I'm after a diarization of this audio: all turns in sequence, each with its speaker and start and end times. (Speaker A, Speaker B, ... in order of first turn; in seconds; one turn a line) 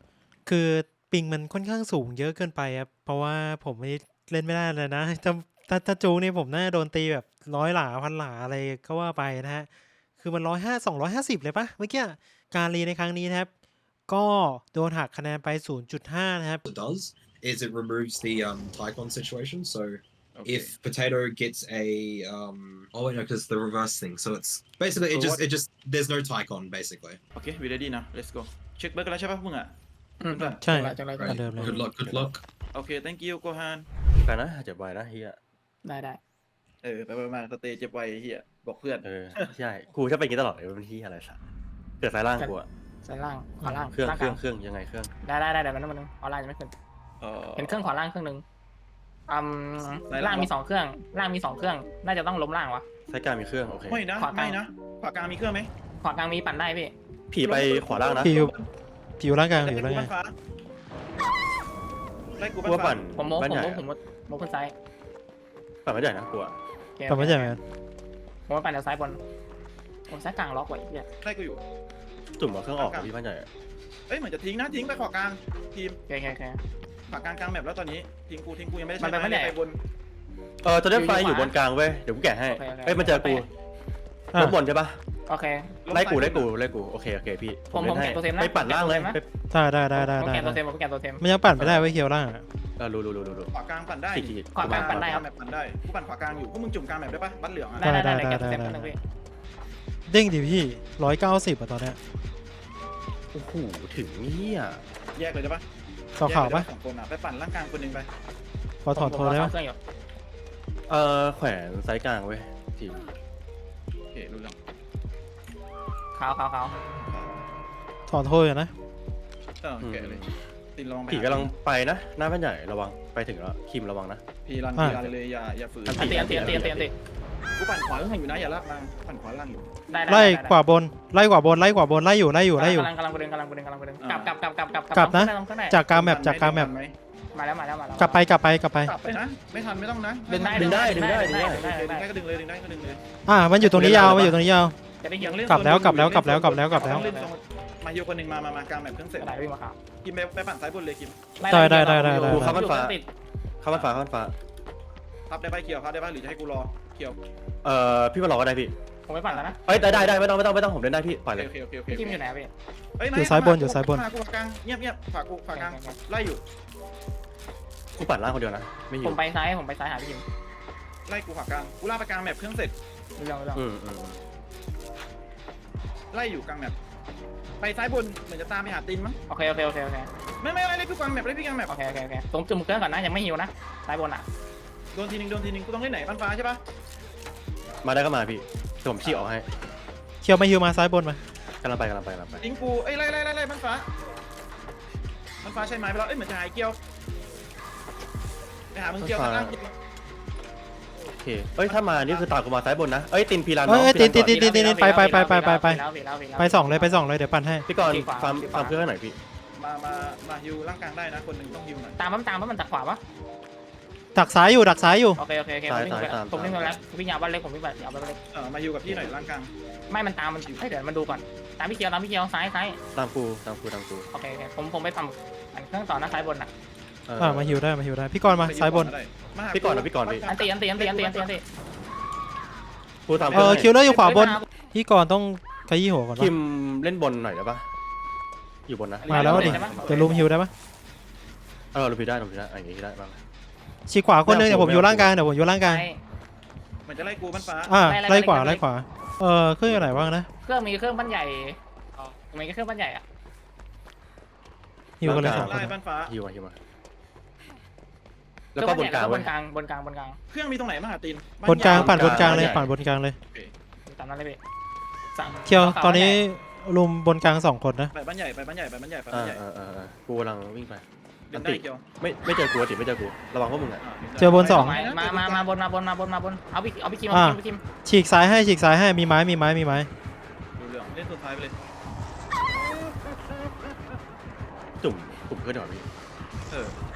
Speaker A: 0.5-9.7
Speaker A: 10.2-13.5
Speaker A: 14.1-16.6
Speaker B: 16.6-27.2
Speaker C: 20.4-20.7
Speaker C: 25.1-25.4
Speaker C: 27.3-29.7
Speaker D: 30.2-31.4
Speaker C: 30.3-30.6
Speaker A: 30.6-31.8
Speaker B: 31.2-32.4
Speaker E: 31.6-31.9
Speaker C: 32.7-33.9
Speaker E: 34.2-35.4
Speaker D: 35.8-36.2
Speaker C: 36.8-39.5
Speaker E: 39.0-41.4
Speaker E: 42.0-42.7
Speaker D: 43.0-44.4
Speaker E: 43.7-45.1
Speaker D: 45.2-46.7
Speaker C: 47.2-47.8
Speaker D: 47.6-48.4
Speaker D: 49.3-52.8
Speaker C: 50.1-50.5
Speaker E: 53.1-54.0
Speaker C: 53.9-55.7
Speaker D: 54.2-54.6
Speaker D: 56.0-56.9
Speaker E: 57.3-58.4
Speaker C: 57.4-58.6
Speaker A: 58.2-58.5
Speaker A: 59.2-60.1
Speaker C: 59.6-60.3
Speaker C: 62.4-63.0
Speaker E: 62.6-63.8
Speaker D: 63.2-64.7
Speaker E: 65.8-66.5
Speaker D: 67.0-67.6
Speaker A: 67.1-67.6
Speaker D: 68.5-69.2
Speaker D: 70.1-71.0
Speaker C: 71.2-71.6
Speaker E: 72.4-73.5
Speaker C: 72.8-73.1
Speaker C: 74.1-76.0
Speaker D: 76.1-76.6
Speaker C: 77.1-79.8
Speaker D: 79.0-79.5
Speaker E: 80.6-83.5
Speaker D: 80.9-81.5
Speaker D: 82.5-83.5
Speaker E: 84.3-85.0
Speaker D: 85.3-85.8
Speaker C: 85.8-86.5
Speaker E: 85.9-89.3
Speaker D: 87.7-89.2
Speaker A: 89.5-90.6
Speaker D: 90.0-91.2
Speaker A: 91.2-92.4
Speaker E: 91.5-91.9
Speaker E: 92.8-93.5
Speaker C: 93.5-97.8
Speaker E: 94.1-95.2
Speaker D: 94.5-95.2
Speaker D: 97.8-99.0
Speaker A: 97.8-98.9
Speaker A: 100.1-102.0
Speaker E: 103.3-104.8
Speaker C: 105.2-105.6
Speaker A: 106.2-106.7
Speaker C: 106.2-108.1
Speaker A: 108.8-109.5
Speaker D: 108.9-109.8
Speaker E: 110.9-113.1
Speaker C: 114.1-114.6
Speaker D: 116.1-116.8
Speaker C: 117.0-117.3
Speaker A: 118.1-118.7
Speaker C: 119.6-120.2
Speaker E: 119.8-120.4
Speaker C: 120.7-121.5
Speaker E: 121.1-124.2
Speaker C: 124.4-126.9
Speaker A: 124.8-125.0
Speaker E: 124.8-125.1
Speaker E: 125.8-126.9
Speaker D: 125.9-126.9
Speaker C: 127.6-129.7
Speaker D: 129.9-130.5
Speaker A: 130.1-132.9
Speaker D: 132.6-135.8
Speaker C: 134.0-134.3
Speaker A: 134.9-136.7
Speaker C: 135.9-136.9
Speaker D: 137.3-138.2
Speaker A: 138.0-138.9
Speaker C: 138.8-143.0
Speaker D: 140.3-142.1
Speaker E: 140.5-141.6
Speaker A: 143.2-144.8
Speaker C: 143.6-144.3
Speaker E: 143.7-144.4
Speaker D: 145.0-145.4
Speaker C: 145.2-149.4
Speaker A: 145.5-147.0
Speaker D: 146.8-147.3
Speaker D: 149.2-149.8
Speaker C: 150.0-151.2
Speaker D: 151.4-153.1
Speaker A: 151.5-152.6
Speaker E: 152.2-153.0
Speaker E: 153.6-154.3
Speaker C: 153.7-154.0
Speaker C: 155.3-157.2
Speaker E: 157.6-158.7
Speaker D: 159.1-159.6
Speaker C: 159.3-160.2
Speaker E: 159.7-161.5
Speaker C: 161.3-162.2
Speaker D: 161.9-162.5
Speaker C: 163.0-166.4
Speaker A: 163.1-164.0
Speaker D: 165.5-166.0
Speaker E: 168.0-169.2
Speaker D: 169.0-170.2
Speaker C: 171.1-172.7
Speaker D: 173.2-173.6
Speaker E: 173.5-174.2
Speaker C: 176.1-176.8
Speaker C: 177.6-179.2
Speaker D: 179.3-180.1
Speaker C: 180.4-181.7
Speaker D: 181.7-184.2
Speaker C: 184.9-186.6
Speaker E: 187.8-189.5
Speaker A: 190.2-191.2
Speaker E: 191.6-192.4
Speaker C: 192.4-193.9
Speaker C: 195.4-196.8
Speaker C: 198.7-199.7
Speaker E: 199.0-199.6
Speaker E: 201.2-204.5
Speaker C: 201.7-202.3
Speaker A: 203.7-205.8
Speaker D: 204.1-207.0
Speaker A: 206.4-207.7
Speaker E: 207.7-209.2
Speaker D: 207.7-208.8
Speaker C: 209.6-212.0
Speaker D: 212.0-213.0
Speaker A: 214.1-215.2
Speaker D: 215.2-218.2
Speaker E: 215.7-216.8
Speaker C: 218.3-219.5
Speaker E: 218.8-219.2
Speaker D: 219.9-222.8
Speaker E: 222.9-224.1
Speaker D: 224.1-226.5
Speaker E: 227.1-227.6
Speaker A: 227.2-228.9
Speaker C: 228.4-231.4
Speaker E: 229.5-230.2
Speaker D: 230.3-231.4
Speaker E: 233.1-233.7
Speaker D: 233.3-234.4
Speaker A: 233.3-236.3
Speaker E: 236.2-237.7
Speaker E: 238.7-240.0
Speaker C: 239.0-240.1
Speaker D: 239.1-240.3
Speaker A: 239.1-240.5
Speaker E: 241.7-243.2
Speaker A: 243.9-245.8
Speaker E: 244.2-245.2
Speaker D: 245.6-246.0
Speaker C: 246.8-247.8
Speaker A: 247.7-250.3
Speaker D: 247.8-248.6
Speaker E: 249.6-250.1
Speaker D: 250.4-253.0
Speaker A: 255.0-255.7
Speaker E: 255.0-256.6
Speaker C: 255.0-256.1
Speaker E: 258.5-259.3
Speaker D: 258.6-260.2
Speaker C: 260.3-262.7
Speaker A: 261.4-263.2
Speaker E: 261.6-262.7
Speaker D: 263.9-264.4
Speaker D: 265.1-266.2
Speaker A: 265.4-267.9
Speaker C: 267.9-269.4
Speaker E: 269.1-273.8
Speaker C: 271.3-271.8
Speaker C: 273.8-275.5
Speaker A: 274.2-274.8
Speaker D: 274.4-277.6
Speaker A: 277.1-279.9
Speaker C: 280.6-281.6
Speaker E: 284.8-285.9
Speaker C: 286.5-286.8